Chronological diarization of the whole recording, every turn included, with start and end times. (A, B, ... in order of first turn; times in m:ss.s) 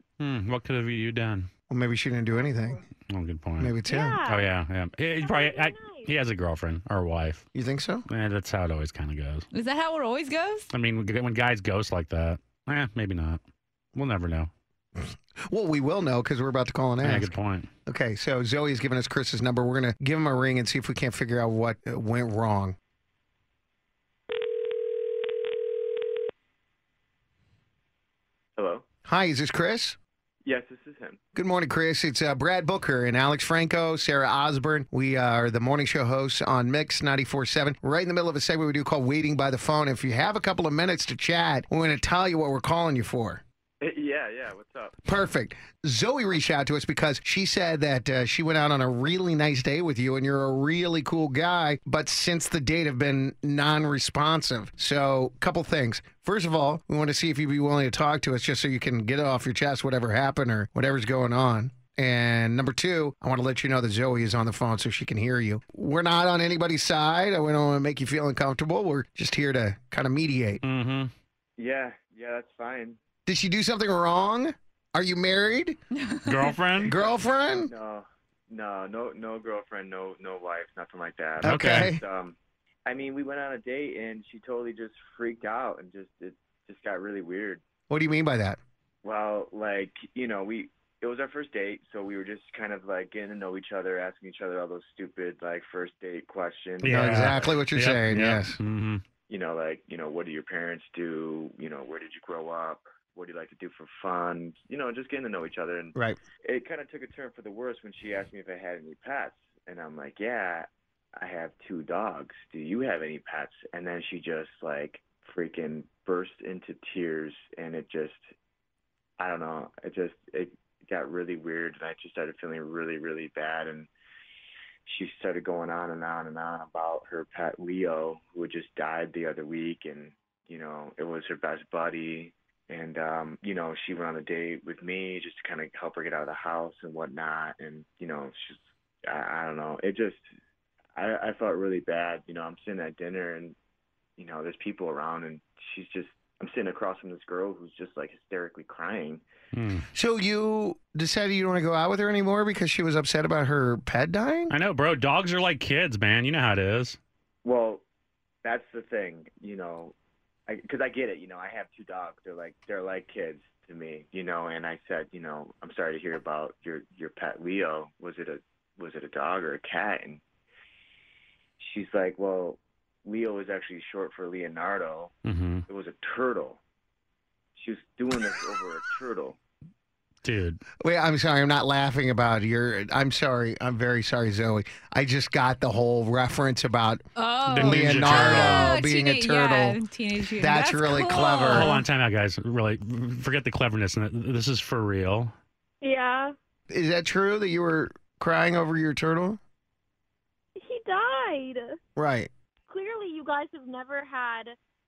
0:00.2-0:01.5 A
0:01.7-0:02.8 B
0:02.3-0:02.8 C
0:03.1-0:03.8 A
0:03.6-0:04.2 B
0:03.9-0:04.5 C
0:04.3-0:07.4 A
0:05.2-0:06.1 C
0:07.5-0:08.0 B
0:08.1-0:09.4 A
0:09.5-0:10.7 D
0:10.7-0:13.4 A
0:13.9-0:14.5 A
0:15.0-0:17.3 B
0:17.0-0:17.7 A
0:17.9-0:22.8 B
0:28.6-0:28.8 E
0:29.0-0:30.0 B
0:30.4-0:31.2 E
0:31.3-0:43.4 B
0:43.8-0:45.0 E
0:45.0-1:10.6 B
1:10.6-1:11.1 A
1:11.6-1:13.0 E
1:13.2-1:15.8 B
1:15.9-1:16.5 D
1:16.2-1:16.9 A
1:16.8-1:17.7 B
1:16.8-1:27.6 E
1:21.4-1:22.0 B
1:21.4-1:21.9 A
1:27.9-1:28.6 B
1:29.0-1:37.6 E
1:36.8-1:39.0 A
1:36.8-1:38.6 B
1:39.3-1:58.2 E
1:59.2-2:03.9 E
2:04.9-2:20.3 E
2:20.9-2:23.6 E
2:24.2-2:29.2 E
2:29.5-2:29.8 A
2:29.9-2:34.5 B
2:34.5-2:37.0 A
2:37.4-2:37.8 E
2:38.4-2:39.9 E
2:40.5-2:50.2 E
2:51.6-2:55.1 E
2:55.2-2:55.6 A
2:55.7-2:56.6 E
2:57.6-2:59.4 E
3:00.2-3:00.6 A
3:00.8-3:07.0 B
3:07.2-3:11.8 D
3:07.4-3:08.7 A
3:07.6-3:09.8 B
3:10.4-3:11.7 B
3:11.1-3:15.3 A
3:15.8-3:16.3 C
3:16.7-3:19.4 B
3:20.6-3:21.8 C
3:22.0-3:22.3 B
3:22.7-3:24.6 C